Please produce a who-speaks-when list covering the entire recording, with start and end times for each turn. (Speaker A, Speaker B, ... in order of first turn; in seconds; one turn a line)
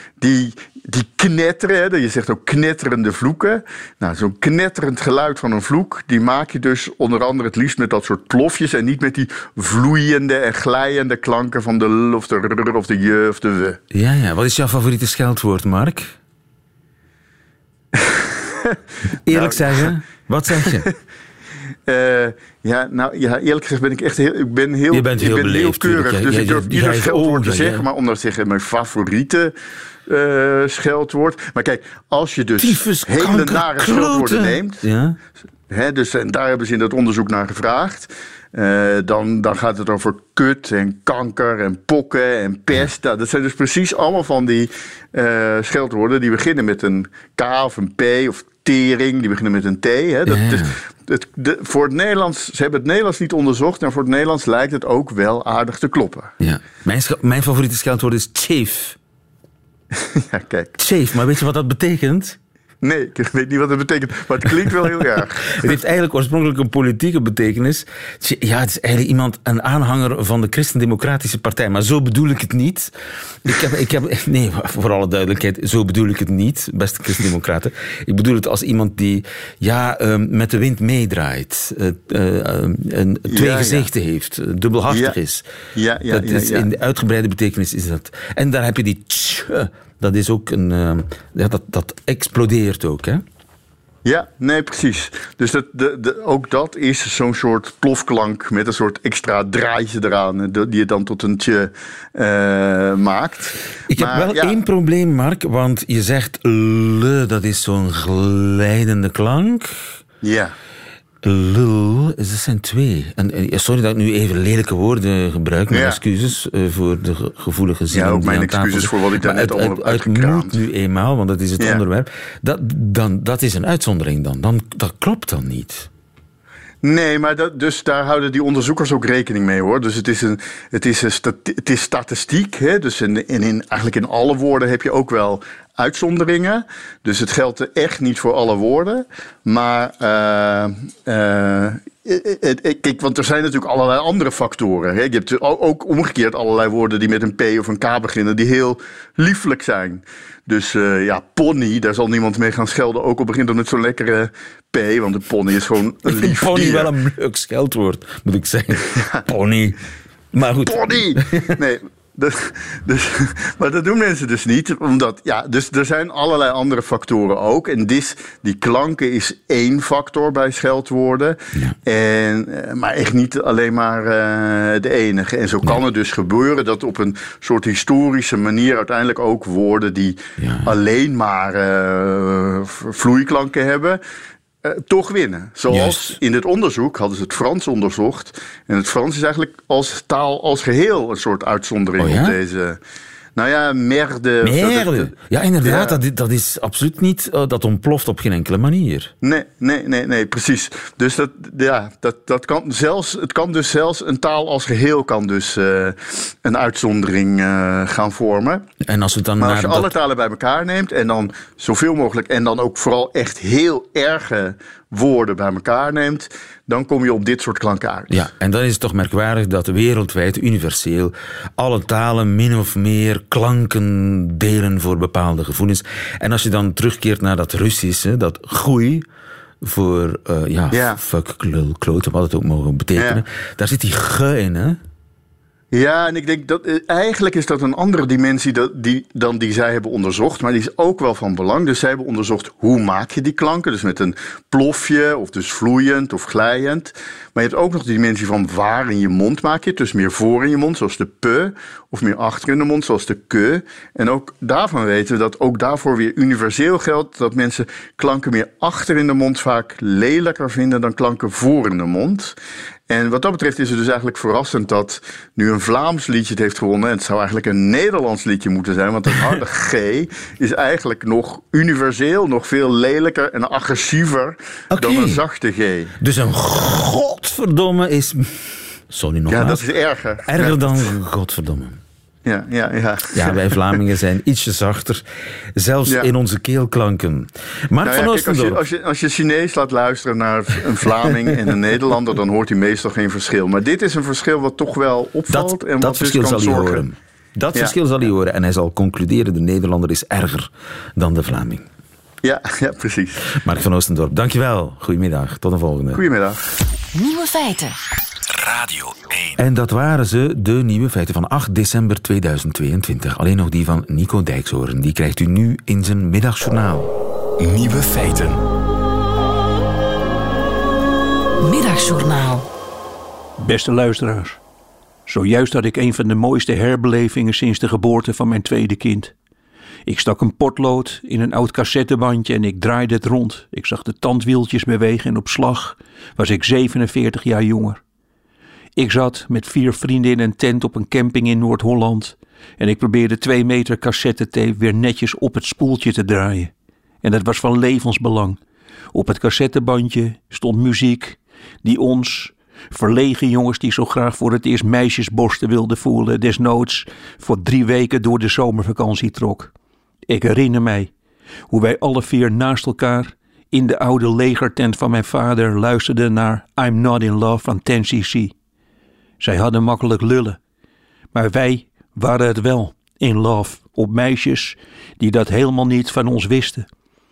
Speaker A: 0.2-13.8
Speaker B: 13.9-16.1
Speaker A: 18.0-18.8
Speaker B: 19.2-20.9
Speaker A: 19.3-19.9
Speaker A: 20.6-20.9
Speaker A: 21.9-29.5
Speaker B: 24.9-27.9
Speaker A: 30.1-34.8
Speaker B: 32.6-35.2
Speaker A: 35.7-56.3
Speaker B: 50.2-50.8
Speaker B: 56.4-59.0
Speaker A: 60.0-60.7
Speaker B: 60.8-62.4
Speaker A: 62.8-65.8
Speaker B: 64.6-72.9
Speaker B: 73.5-85.5
Speaker A: 83.3-83.9
Speaker A: 84.9-85.2
Speaker A: 85.8-86.7
Speaker B: 86.1-93.2
Speaker A: 94.0-104.6
Speaker B: 103.9-109.8
Speaker A: 110.2-110.5
Speaker B: 111.2-125.9
Speaker A: 115.7-116.0
Speaker A: 117.9-120.6
Speaker A: 126.8-156.9
Speaker B: 156.1-159.8
Speaker B: 160.3-161.6
Speaker A: 160.6-184.0
Speaker B: 180.4-180.7
Speaker A: 184.6-192.8
Speaker B: 185.7-186.2
Speaker B: 192.0-192.4
Speaker A: 193.4-196.0
Speaker B: 194.4-199.1
Speaker A: 199.2-208.7
Speaker B: 208.8-209.9
Speaker A: 209.4-218.2
Speaker B: 218.1-229.1
Speaker B: 229.6-234.8
Speaker A: 230.7-231.0
Speaker A: 233.0-233.2
Speaker A: 235.7-262.4
Speaker A: 262.9-275.9
Speaker B: 274.7-275.2
Speaker B: 276.0-279.6
Speaker A: 279.3-280.9
Speaker B: 280.2-281.8
Speaker A: 282.2-283.8
Speaker B: 283.1-285.1
Speaker B: 285.6-288.6
Speaker A: 287.8-296.9
Speaker B: 295.3-301.7
Speaker A: 302.2-303.2
Speaker B: 303.4-306.0
Speaker A: 305.9-306.4
Speaker C: 306.9-307.8
Speaker D: 308.3-309.4
Speaker B: 309.4-316.9
Speaker D: 317.4-318.4
Speaker C: 321.4-322.5
Speaker E: 323.4-324.4
Speaker E: 325.1-329.1
Speaker E: 329.9-337.8
Speaker E: 338.8-348.4
Speaker E: 348.9-359.5
Speaker E: 360.1-360.9
Speaker E: 361.5-368.3
Speaker E: 369.2-370.4
Speaker E: 371.1-376.7